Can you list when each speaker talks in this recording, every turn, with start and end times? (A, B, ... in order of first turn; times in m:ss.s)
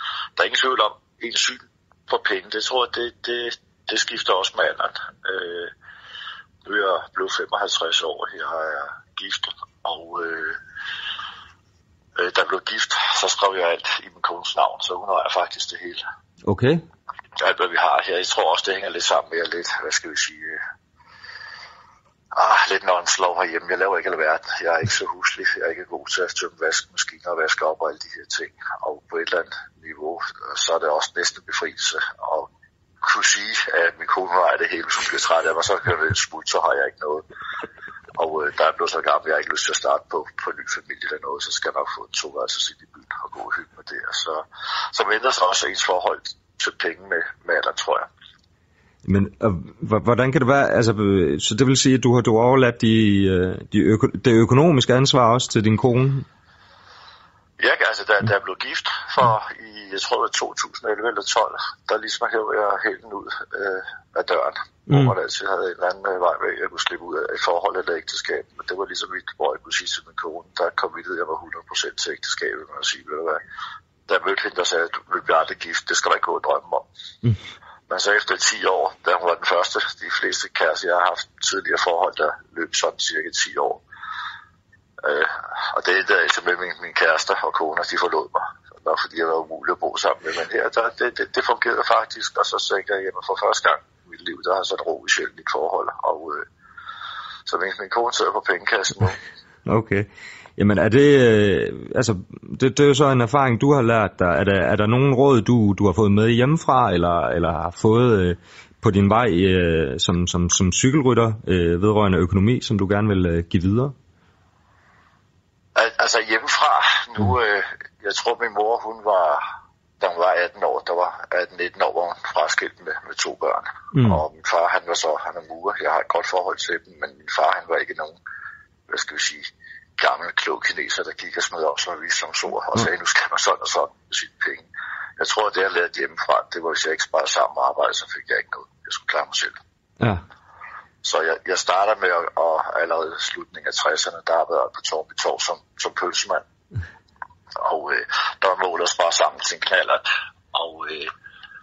0:00.4-0:05.7 A
0:06.6-0:10.6 A
0:12.2-0:16.0 A
0:16.4-0:16.8 B
0:17.4-0:20.6 A
0:22.3-0:32.5 A
0:33.0-0:37.2 A
0:38.2-0:48.1 A
0:49.0-0:56.3 B
0:57.6-1:13.4 A
1:14.1-1:16.8 A
1:17.9-1:23.8 A
1:25.0-1:36.4 A
1:37.5-1:39.2 A
1:39.7-1:54.0 B
1:55.8-1:59.4 A
2:00.0-2:08.2 A
2:03.9-2:04.2 B
2:08.9-2:14.7 A
2:15.2-2:19.6 A
2:20.0-2:20.2 B
2:21.0-2:26.4 A
2:27.6-2:31.1 A